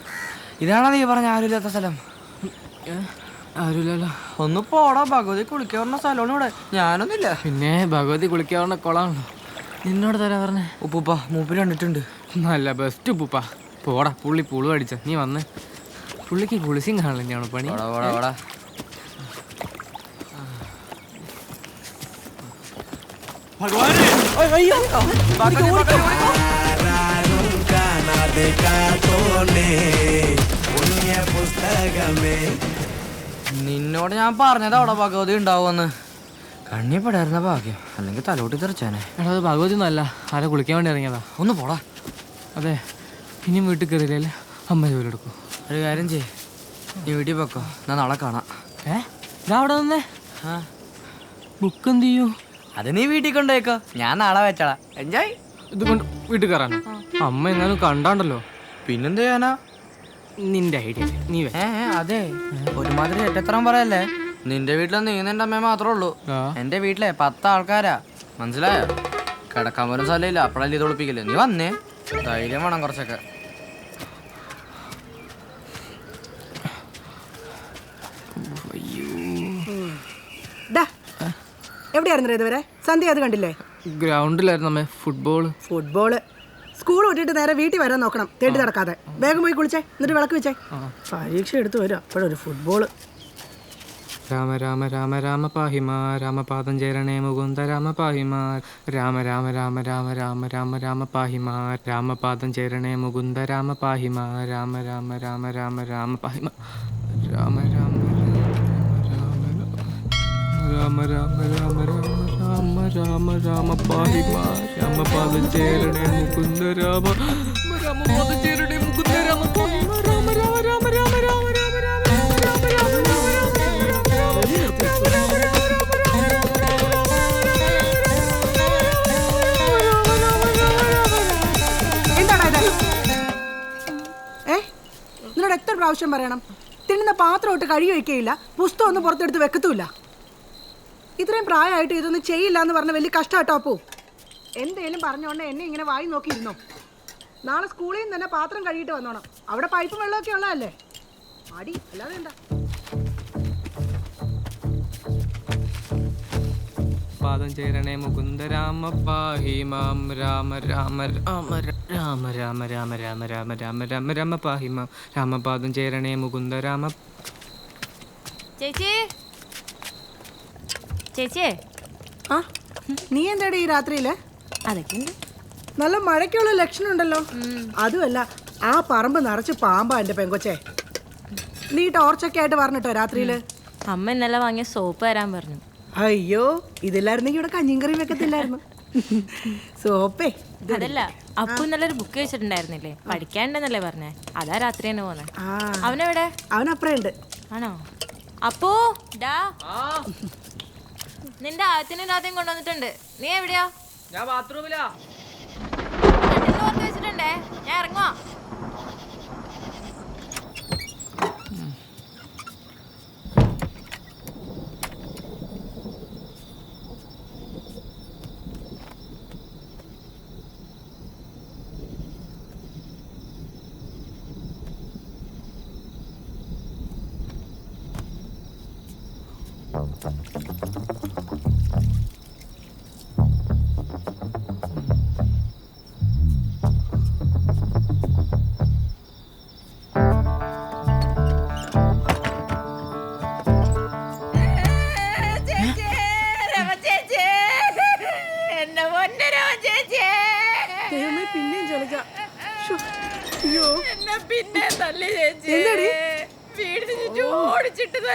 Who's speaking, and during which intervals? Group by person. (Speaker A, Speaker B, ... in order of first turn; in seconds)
Speaker A: 0.6-2.0, 4.4-7.4, 10.8-12.0, 17.6-18.3, 24.8-26.3, 33.5-35.9, 36.7-39.0, 41.4-41.8, 45.7-46.3, 47.0-48.5, 52.8-55.3, 58.9-59.6, 61.5-68.9, 69.5-73.2
Speaker B: 2.9-4.1, 7.4-9.3, 9.8-10.7, 12.4-15.4, 16.3-18.2, 39.2-41.2, 43.5-45.3, 48.9-50.0, 51.6-52.3, 55.7-58.4, 60.4-61.5, 66.3-66.5, 78.3-79.6, 83.9-85.5, 94.3-106.5, 107.2-109.7, 110.5-125.1, 157.2-166.9, 204.1-204.8
Speaker C: 79.7-80.0, 81.9-83.5, 85.6-86.2, 86.8-90.6, 91.1-92.9, 132.2-132.7, 135.3-139.9, 141.2-143.8, 144.6-146.6, 147.4-150.7, 151.5-152.3, 173.1-174.2, 175.8-177.2, 177.8-180.6, 181.7-183.4, 186.0-191.7, 195.4-196.0, 196.5-197.1, 250.9-252.1, 253.4-253.8, 255.4-255.9, 256.9-257.6
Speaker D: 168.6-169.0, 171.2-171.5, 174.7-175.1, 177.4-177.7, 183.1-183.4, 183.9-185.6, 190.7-195.3, 195.8-196.3, 197.5-197.8, 198.4-199.5, 201.4-203.7, 206.3-208.1, 246.5-247.5, 248.5-250.7